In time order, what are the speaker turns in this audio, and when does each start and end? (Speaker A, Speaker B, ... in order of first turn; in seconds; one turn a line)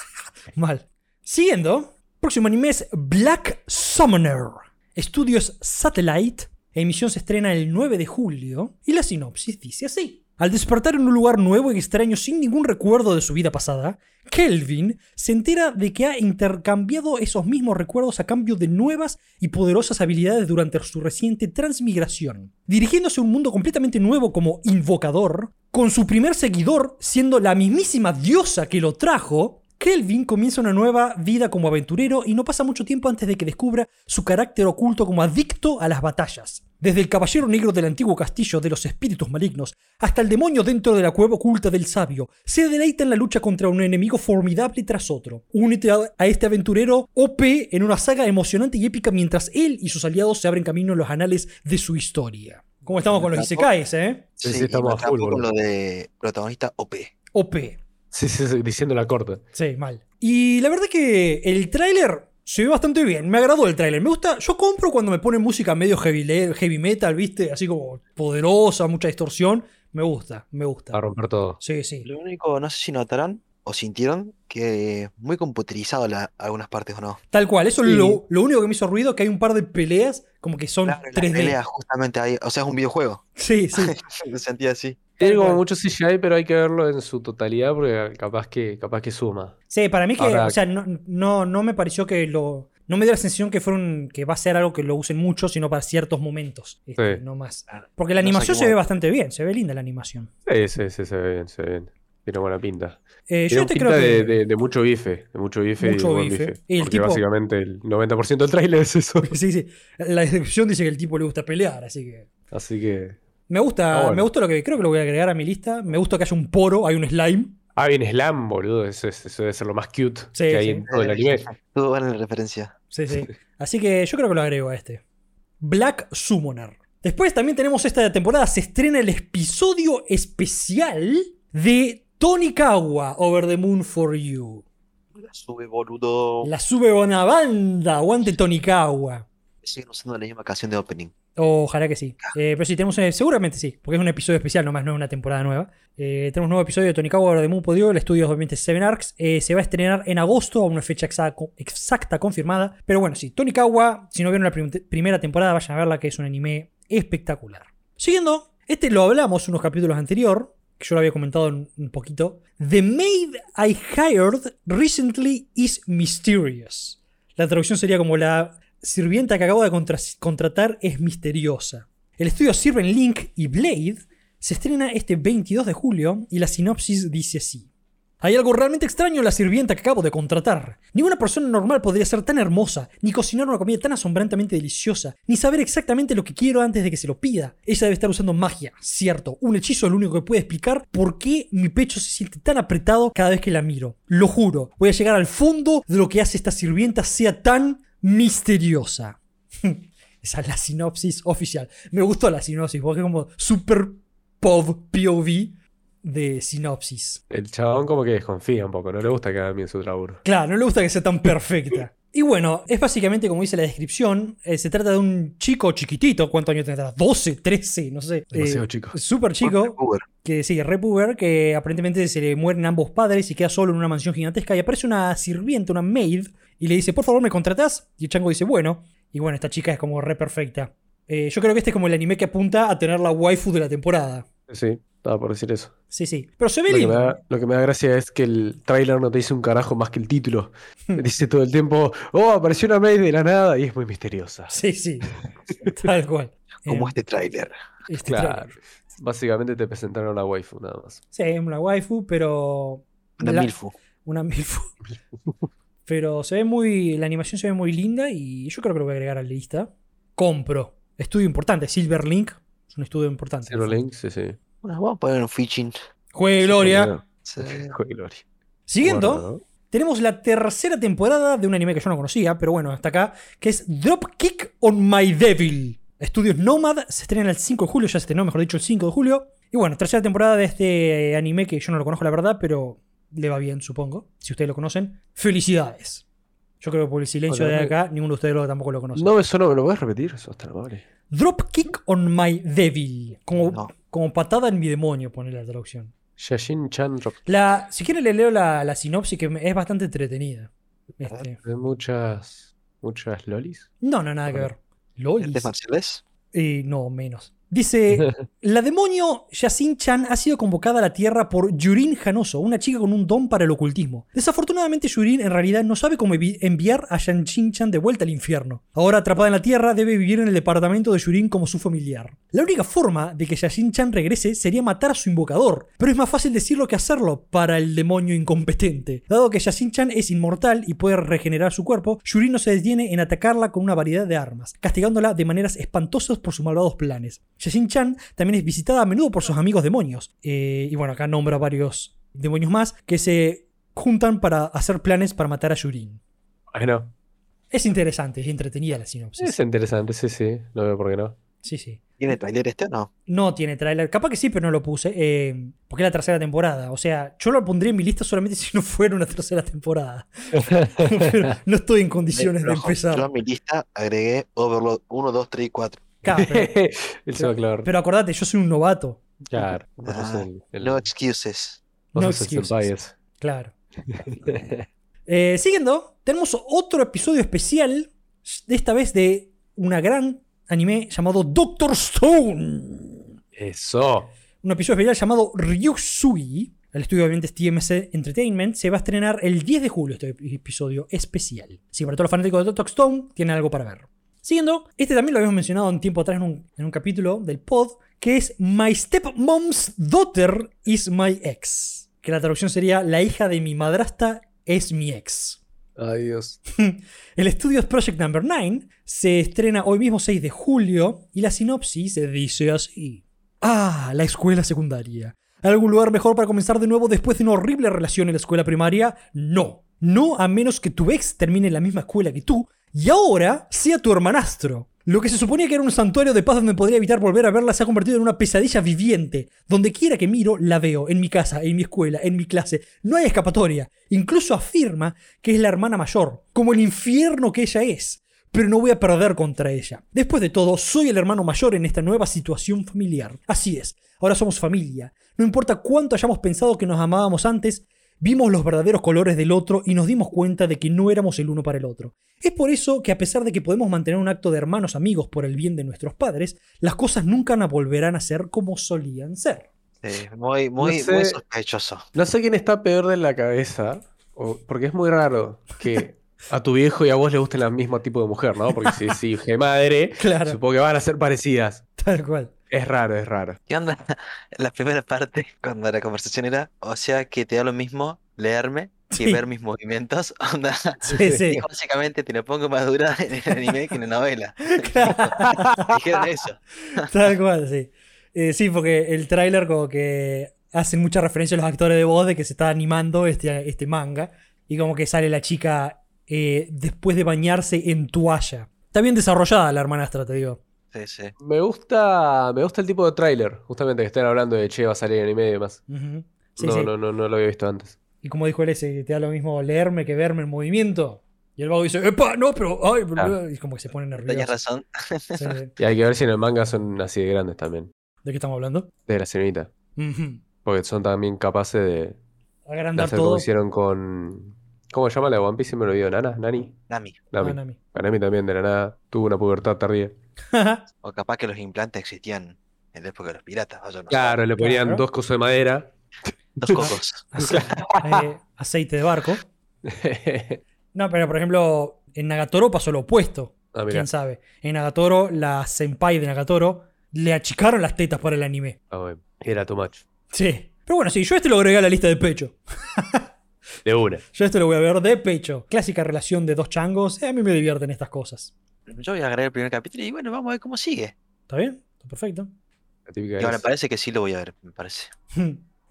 Speaker A: 0.6-54.3
Speaker B: 53.1-53.7
Speaker B: 54.4-57.1
Speaker C: 54.4-55.5
Speaker A: 57.4-57.8
Speaker C: 58.1-59.4
Speaker A: 59.5-71.0
Speaker C: 70.9-71.6
Speaker A: 71.6-72.1
Speaker B: 72.0-77.2
Speaker A: 77.3-81.6
Speaker B: 80.8-83.2
Speaker A: 83.4-84.0
Speaker B: 83.8-85.6
Speaker C: 85.2-89.5
Speaker A: 85.2-85.6
Speaker A: 89.7-100.3
Speaker C: 90.2-90.6
Speaker B: 98.2-98.8
Speaker C: 100.5-103.0
Speaker A: 103.3-104.4
Speaker C: 103.5-109.3
Speaker A: 105.8-107.2
Speaker A: 109.2-112.3
Speaker C: 112.5-113.2
Speaker A: 113.5-117.6
Speaker C: 113.9-114.3
Speaker C: 117.8-121.5
Speaker A: 120.3-120.9
Speaker B: 120.9-122.8
Speaker A: 122.9-125.0
Speaker A: 125.6-134.6
Speaker B: 135.2-136.5
Speaker A: 136.4-139.3
Speaker B: 139.6-141.1
Speaker A: 141.4-177.7
Speaker A: 178.2-207.2
Speaker C: 207.3-210.2
Speaker A: 210.2-234.3
Speaker C: 218.3-219.0
Speaker B: 219.4-220.1
Speaker C: 234.5-235.7
Speaker A: 235.9-237.2
Speaker C: 236.7-244.6
Speaker A: 244.5-247.0
Speaker B: 246.7-247.5
Speaker A: 247.9-248.6
Speaker C: 248.1-251.0
Speaker A: 251.1-254.8
Speaker B: 253.2-253.8
Speaker A: 255.9-263.8
Speaker C: 263.5-264.4
Speaker B: 264.6-265.8
Speaker A: 266.1-266.9
Speaker C: 266.5-268.2
Speaker B: 267.2-267.8
Speaker A: 268.7-286.0
Speaker C: 268.8-269.4
Speaker A: 286.6-289.1
Speaker C: 287.3-287.7
Speaker C: 288.9-290.8
Speaker A: 291.1-295.9
Speaker C: 296.2-297.2
Speaker A: 297.3-301.4
Speaker C: 301.4-303.7
Speaker A: 303.8-305.5
Speaker B: 305.2-306.0
Speaker A: 306.3-346.0
Speaker C: 346.5-346.9
Speaker A: 347.5-349.4
Speaker C: 349.2-351.2
Speaker A: 351.4-351.8
Speaker B: 352.0-352.9
Speaker A: 353.1-363.1
Speaker C: 360.4-361.1
Speaker B: 362.1-365.8
Speaker A: 366.0-366.5
Speaker C: 366.1-367.7
Speaker A: 367.2-369.0
Speaker C: 369.3-370.9
Speaker B: 369.9-371.6
Speaker C: 371.9-372.9
Speaker A: 371.9-373.5
Speaker C: 373.9-374.7
Speaker A: 375.1-383.1
Speaker C: 383.4-384.1
Speaker A: 384.4-405.4
Speaker C: 405.8-406.4
Speaker A: 406.6-459.5
Speaker B: 459.8-461.9
Speaker C: 460.6-461.2
Speaker C: 461.9-471.6
Speaker A: 470.0-470.4
Speaker A: 471.8-472.3
Speaker C: 472.5-473.4
Speaker B: 473.5-486.9
Speaker A: 478.9-479.2
Speaker A: 480.8-481.4
Speaker C: 480.9-481.2
Speaker A: 484.5-485.8
Speaker C: 485.3-485.6
Speaker A: 486.6-500.4
Speaker B: 500.7-501.1
Speaker C: 501.2-505.6
Speaker A: 505.7-506.7
Speaker C: 506.4-507.8
Speaker A: 508.0-514.3
Speaker B: 514.0-515.4
Speaker A: 515.2-515.5
Speaker C: 515.6-517.7
Speaker A: 518.0-518.7
Speaker C: 518.9-519.5
Speaker A: 519.8-520.2
Speaker C: 520.5-522.0
Speaker A: 522.5-523.3
Speaker C: 522.8-526.6
Speaker B: 526.7-527.0
Speaker C: 527.1-529.9
Speaker A: 527.2-527.6
Speaker A: 530.3-530.6
Speaker B: 530.8-534.2
Speaker C: 533.9-535.7
Speaker A: 534.4-534.8
Speaker B: 536.4-537.6
Speaker A: 536.6-539.3
Speaker C: 537.2-538.0
Speaker C: 539.6-540.4
Speaker A: 540.7-548.6
Speaker C: 543.5-543.9
Speaker C: 548.7-549.8
Speaker A: 550.1-553.1
Speaker C: 553.6-554.0
Speaker A: 554.1-558.3
Speaker B: 558.7-561.0
Speaker A: 561.3-562.3
Speaker C: 562.9-563.4
Speaker B: 563.2-564.9
Speaker A: 565.1-565.4